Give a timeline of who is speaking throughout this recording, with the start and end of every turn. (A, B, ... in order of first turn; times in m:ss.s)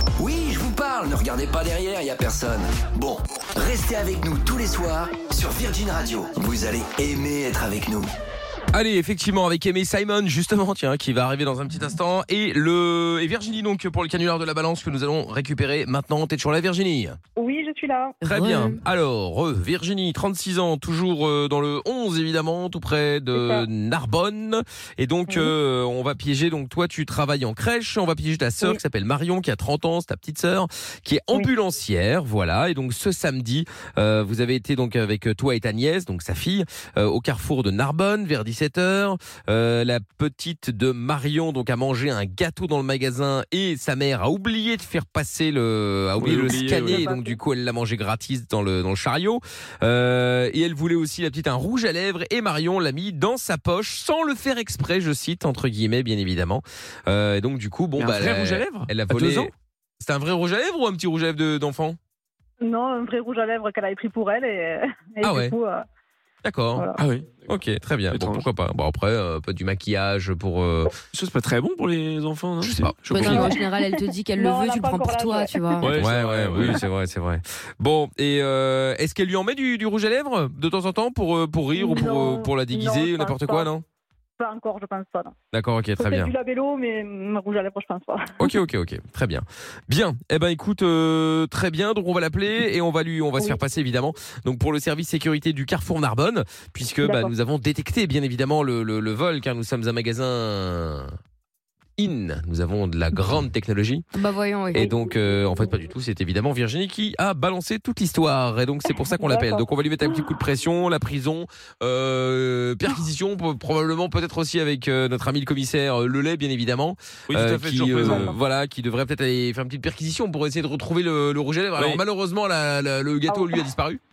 0:00.2-0:08.1 A
0:08.7-0:17.2 B
0:17.4-0:18.2 C
0:18.2-1:02.0 B
0:18.2-0:18.8 D
0:23.3-0:23.6 C
0:25.3-0:25.5 C
0:46.2-0:47.1 E
0:46.9-0:47.3 C
0:58.0-0:59.5 E
1:02.6-1:05.8 C
1:05.2-1:05.5 B
1:06.4-1:06.9 B
1:07.0-1:07.4 E
1:07.5-1:10.9 B
1:08.1-1:08.4 E
1:11.1-1:13.5 E
1:12.6-1:13.4 B
1:13.1-1:16.0 D
1:13.3-1:15.8 C
1:15.8-1:16.8 E
1:16.0-1:23.8 B
1:21.7-1:23.7 C
1:24.4-1:25.3 C
1:25.5-1:26.3 B
1:26.0-1:28.3 C
1:28.4-1:41.2 B
1:37.0-1:37.3 C
1:42.0-1:44.0 B
1:44.1-1:44.9 D
1:44.7-2:04.0 B
1:44.7-1:45.7 C
1:49.1-1:49.6 C
1:57.3-1:58.3 E
1:58.0-1:58.3 C
2:03.3-2:03.6 C